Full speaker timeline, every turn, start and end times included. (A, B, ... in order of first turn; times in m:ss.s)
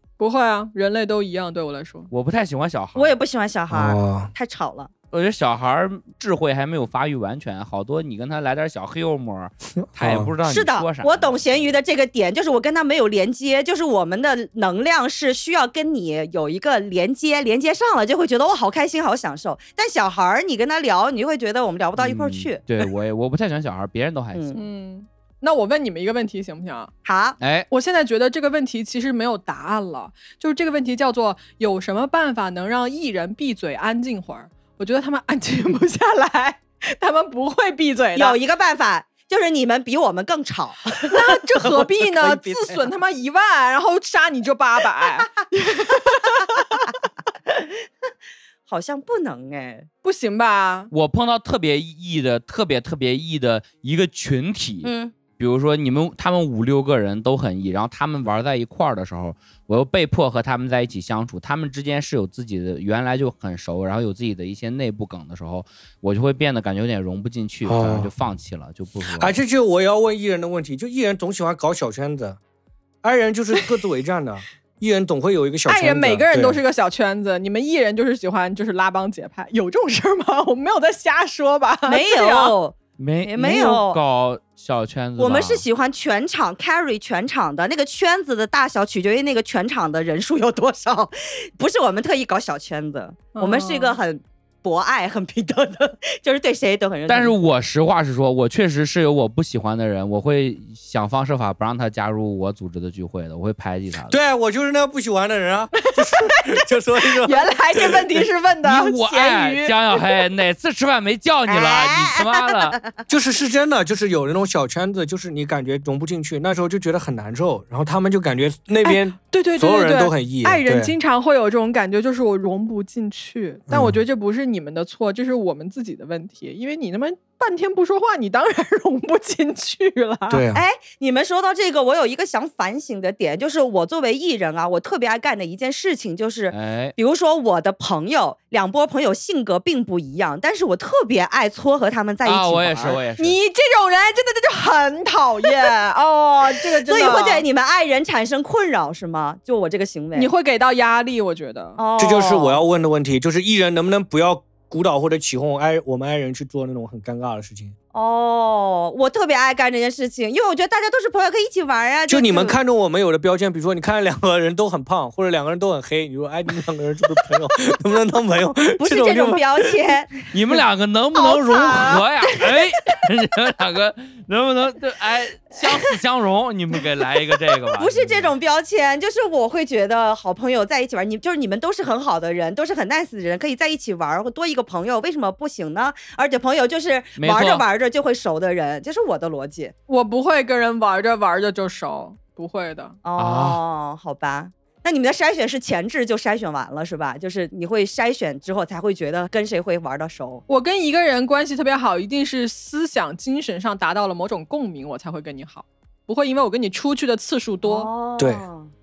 0:00.2-0:02.1 A
0:02.1-0:03.1 B
0:03.0-0:04.9 C
0:03.7-0:04.3 D
0:05.1-0:11.7 B
0:09.8-0:10.3 D
0:10.4-0:22.6 C
0:22.0-0:24.6 B
0:24.3-0:24.6 C
0:24.5-0:26.9 A
0:27.0-0:27.4 C
0:27.4-0:27.7 B
0:27.7-0:38.4 A
0:38.1-0:42.9 C
0:41.0-0:46.9 A
0:47.5-0:47.9 C
0:48.7-0:49.9 C
0:50.0-0:50.9 A
0:50.9-1:09.3 B
0:54.8-0:55.1 C
1:07.6-1:08.1 D
1:09.2-1:12.4 D
1:13.0-1:16.6 D
1:15.6-1:22.6 A
1:21.9-1:24.0 C
1:23.0-1:25.6 B
1:25.2-1:37.3 C
1:33.3-1:34.0 A
1:37.1-1:44.2 B
1:44.1-1:48.0 D
1:45.8-1:46.4 A
1:47.2-1:50.2 A
1:48.6-1:52.8 B
1:51.5-1:52.9 C
1:53.1-2:00.9 D
1:58.8-2:10.4 A
2:03.7-2:04.0 D
2:10.3-2:10.6 D
2:10.5-2:23.0 C
2:16.5-2:16.9 B
2:22.2-2:23.4 B
2:23.2-2:27.4 A
2:26.8-2:30.3 C
2:30.1-2:31.8 A
2:31.8-2:32.6 C
2:32.0-2:37.7 D
2:37.9-2:42.6 C
2:42.1-2:49.7 D
2:48.8-2:50.2 C
2:50.3-2:58.3 B
2:51.1-2:53.0 C
2:57.8-3:09.7 C
3:07.2-3:07.6 B
3:09.9-3:13.0 A
3:13.0-3:20.4 C
3:13.2-3:13.6 B
3:20.5-3:27.9 A
3:27.6-3:28.7 C
3:28.2-3:28.4 D